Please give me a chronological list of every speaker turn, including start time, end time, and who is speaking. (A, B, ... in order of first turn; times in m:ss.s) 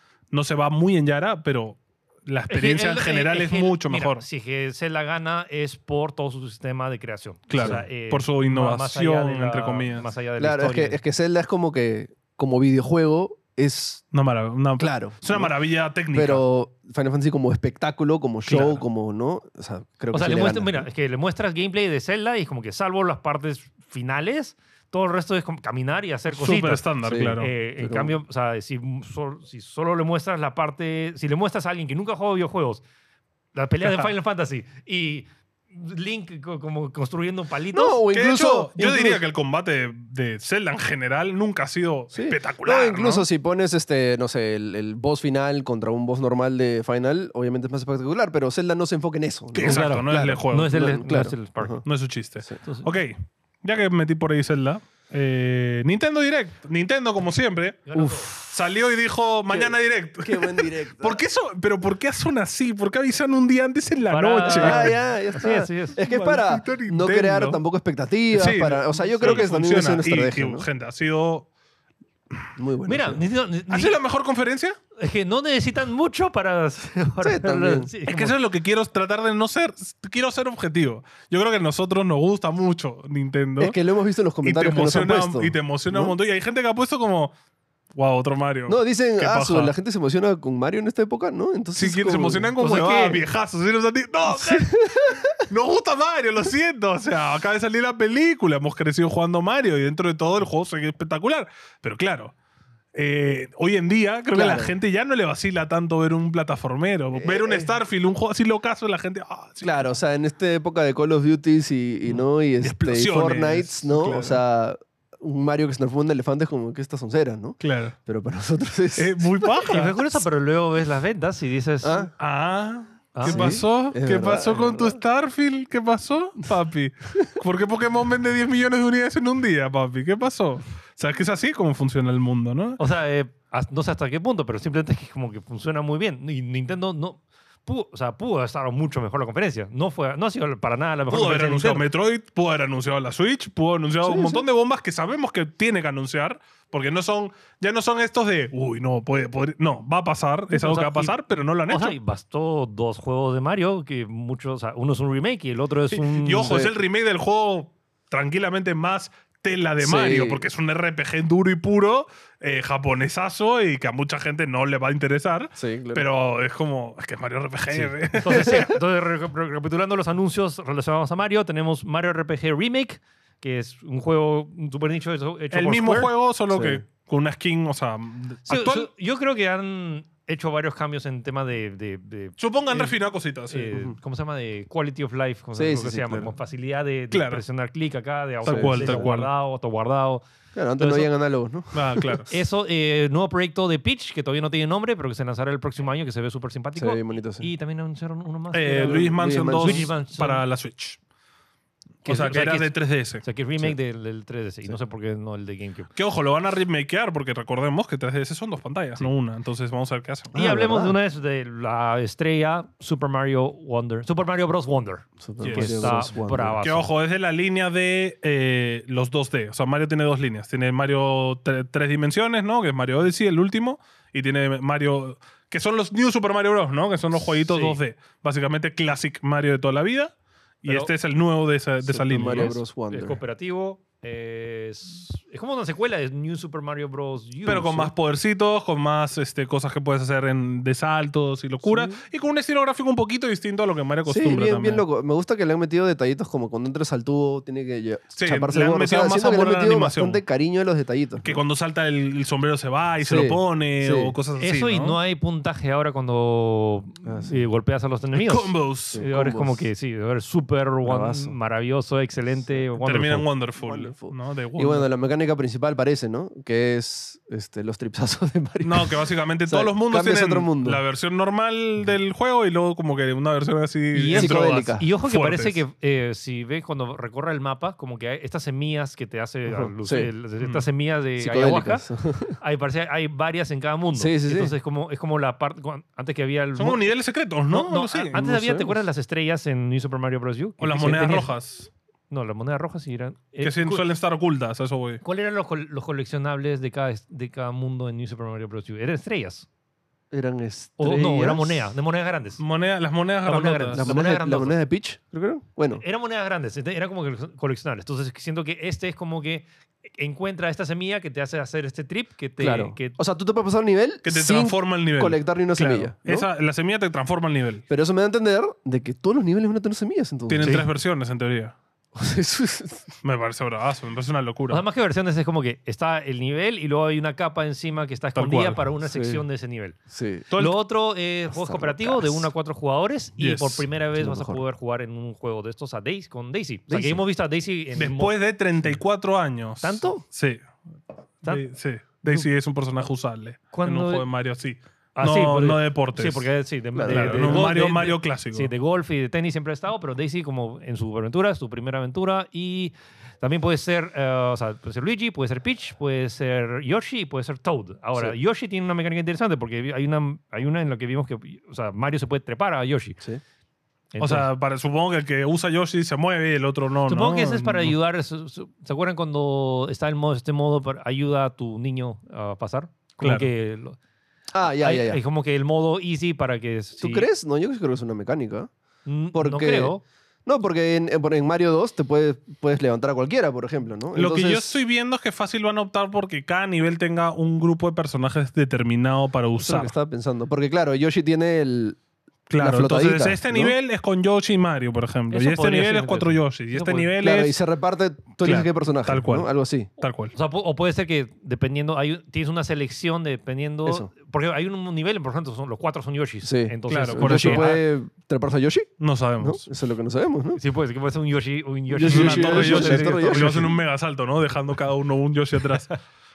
0:00.3-0:04.2 A
0:02.5-0:11.0 B
0:07.5-0:10.0 A
0:10.4-0:14.0 C
0:14.1-0:16.4 A
0:14.8-0:15.5 C
0:16.1-0:20.9 C
0:18.5-0:18.8 B
0:18.5-0:18.8 A
0:20.1-0:32.8 B
0:26.3-0:27.5 A
0:27.0-0:28.2 C
0:33.5-0:38.0 B
0:37.7-0:39.2 C
0:38.1-0:43.2 A
0:42.1-0:51.8 C
0:49.5-0:50.8 A
0:49.6-0:51.8 B
0:51.8-1:05.0 A
0:52.6-0:52.9 B
0:57.8-0:58.3 B
0:59.5-1:01.2 C
1:04.1-1:06.0 B
1:04.4-1:10.7 C
1:06.0-1:07.6 A
1:08.3-1:11.5 A
1:12.6-1:13.2 C
1:12.8-1:14.0 B
1:13.7-1:14.8 A
1:15.0-1:18.4 B
1:17.2-1:17.9 C
1:18.1-1:23.8 A
1:23.6-1:26.1 C
1:24.4-1:27.3 A
1:27.9-1:29.7 A
1:28.7-1:32.5 C
1:31.8-1:42.3 A
1:32.6-1:33.2 B
1:34.2-1:35.4 C
1:42.9-1:49.8 A
1:44.3-1:44.7 C
1:47.1-1:47.7 C
1:49.6-1:59.6 C
1:52.6-1:54.4 A
1:57.6-1:57.9 A
1:59.0-2:00.2 A
1:59.6-2:02.1 B
2:01.8-2:02.1 C
2:02.2-2:12.8 A
2:03.1-2:03.6 B
2:03.2-2:05.0 C
2:12.8-2:21.8 B
2:21.1-2:31.9 A
2:24.0-2:24.4 C
2:30.5-2:36.7 B
2:35.9-2:48.7 A
2:36.4-2:36.7 C
2:39.8-2:40.4 C
2:45.6-2:46.1 C
2:47.7-2:56.1 B
2:48.3-2:48.6 C
2:55.5-2:58.9 A
2:56.5-2:56.8 C
2:58.5-3:02.9 B
3:02.4-3:03.7 A
3:03.5-3:10.2 B
3:05.5-3:06.3 C
3:07.1-3:07.4 A
3:08.4-3:09.3 A
3:08.4-3:09.1 C
3:10.5-3:12.1 C
3:10.8-3:11.1 B
3:11.7-3:12.3 A
3:12.3-3:20.4 B
3:16.8-3:17.5 C
3:18.5-3:21.0 A
3:18.8-3:19.9 C
3:22.0-3:25.9 B
3:22.0-3:23.2 A
3:26.0-3:30.3 A
3:30.3-3:31.0 C
3:30.3-3:36.9 B
3:35.2-3:36.6 C
3:35.4-3:36.0 A
3:36.6-3:52.6 A
3:47.2-3:47.8 B
3:50.6-3:50.9 B
3:51.8-3:53.2 C
3:52.2-3:57.9 B
3:57.4-4:04.8 A
4:01.6-4:01.9 C
4:04.0-4:11.4 C
4:08.2-4:10.2 A
4:11.2-4:15.0 A
4:13.0-4:14.1 C
4:14.4-4:23.3 B
4:17.0-4:17.4 C
4:18.1-4:19.0 A
4:18.9-4:19.6 C
4:20.8-4:21.3 C
4:22.8-4:24.9 A
4:23.6-4:28.9 C
4:28.6-4:35.6 A
4:29.5-4:30.8 C
4:33.9-4:41.8 B
4:34.1-4:34.8 C
4:39.5-4:40.1 C
4:41.2-4:42.4 C
4:42.4-4:46.9 B
4:43.9-4:44.5 C
4:46.6-4:48.2 A
4:47.5-4:51.3 B
4:48.1-4:48.8 C
4:50.6-4:51.7 A
4:52.1-4:53.8 B
4:53.4-4:55.0 A
4:55.0-4:59.5 B
5:00.1-5:01.6 C
5:00.8-5:02.4 B
5:02.4-5:03.9 A
5:03.2-5:04.6 B
5:03.7-5:05.8 C
5:05.7-5:13.0 B
5:12.4-5:16.3 C
5:14.0-5:17.6 A
5:17.7-5:20.6 C
5:20.3-5:21.5 A
5:21.9-5:22.9 C
5:23.0-5:24.6 A
5:24.5-5:29.8 B
5:28.2-5:28.6 A
5:28.8-5:29.2 C
5:29.9-5:30.3 C
5:30.3-5:30.6 A
5:30.3-5:38.1 B
5:31.3-5:32.3 C
5:33.2-5:33.6 A
5:34.0-5:34.4 C
5:36.7-5:37.0 C
5:37.8-5:40.4 A
5:39.6-5:40.0 B
5:41.2-5:46.2 A
5:43.5-5:44.0 B
5:45.0-6:03.0 B
5:46.7-5:47.5 C
5:46.8-5:48.5 A
6:03.9-6:04.3 B
6:04.0-6:07.8 A
6:06.9-6:13.8 B
6:13.0-6:13.3 A
6:14.3-6:15.0 C
6:14.6-6:17.1 B
6:16.8-6:18.5 C
6:18.8-6:19.8 B
6:19.1-6:19.7 C
6:20.2-6:24.6 C
6:23.9-6:29.7 A
6:29.4-6:31.8 C
6:32.3-6:37.4 A
6:32.4-6:33.5 C
6:35.1-6:36.9 B
6:37.0-6:39.7 C
6:38.2-6:40.1 A
6:40.1-6:47.6 B
6:46.2-6:50.4 C
6:46.7-6:47.6 A
6:48.8-6:49.4 A
6:50.4-6:53.5 B
6:51.7-6:53.6 C
6:51.9-6:55.7 A